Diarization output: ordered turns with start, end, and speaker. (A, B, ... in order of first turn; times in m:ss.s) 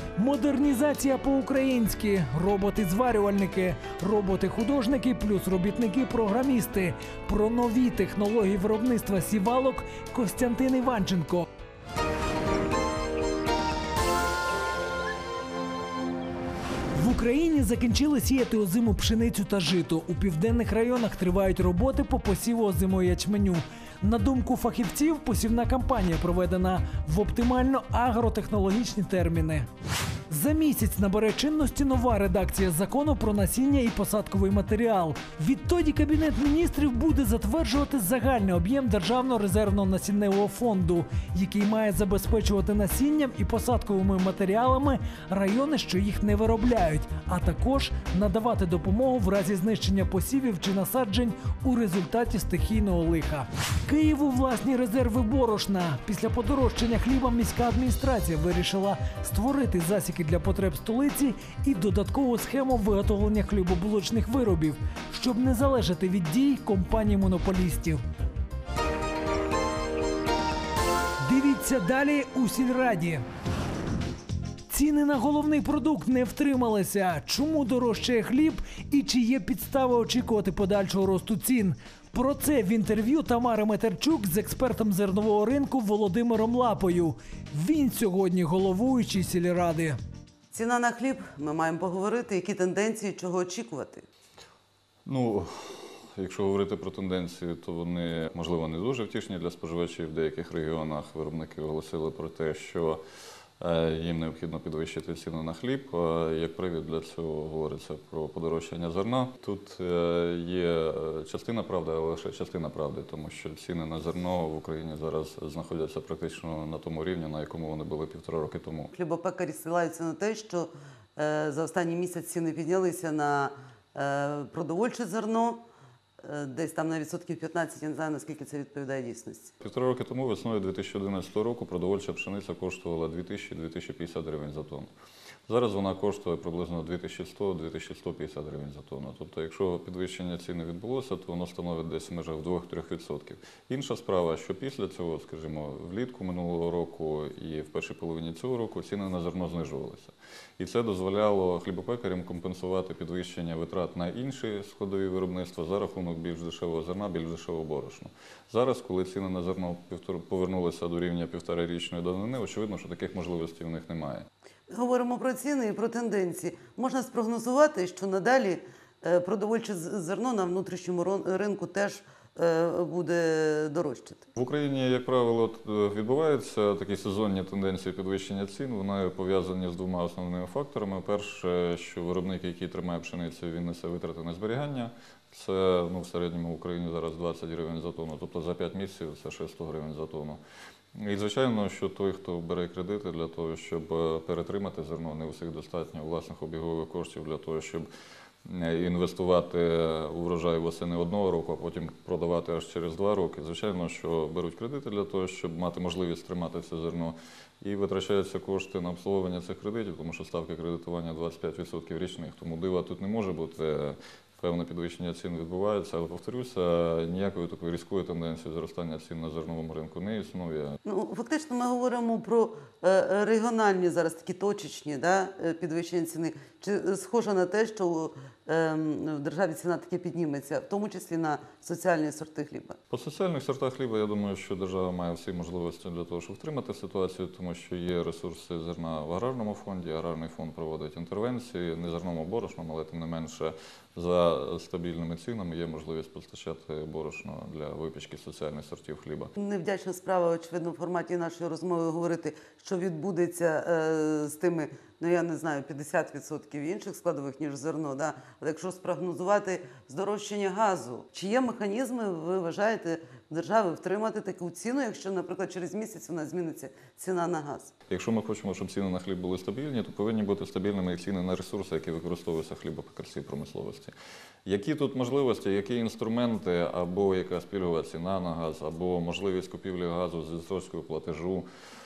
0:00.2-0:11.4 A
0:16.9-0:29.7 A
0:30.3-1:08.0 A
1:11.2-1:13.2 A
1:14.7-1:30.0 A
1:30.5-1:34.0 B
1:35.0-1:43.0 C
1:43.6-1:58.9 C
1:58.9-2:05.6 B
2:06.2-2:09.5 B
2:09.6-2:14.9 C
2:15.5-2:44.3 C
2:44.7-2:54.3 B
2:54.4-3:10.4 C
3:10.9-3:17.9 C
3:18.4-3:40.8 C
3:40.8-3:52.8 B
3:52.9-4:09.3 C
4:09.4-4:27.7 B
4:27.9-4:33.9 C
4:34.4-4:41.5 C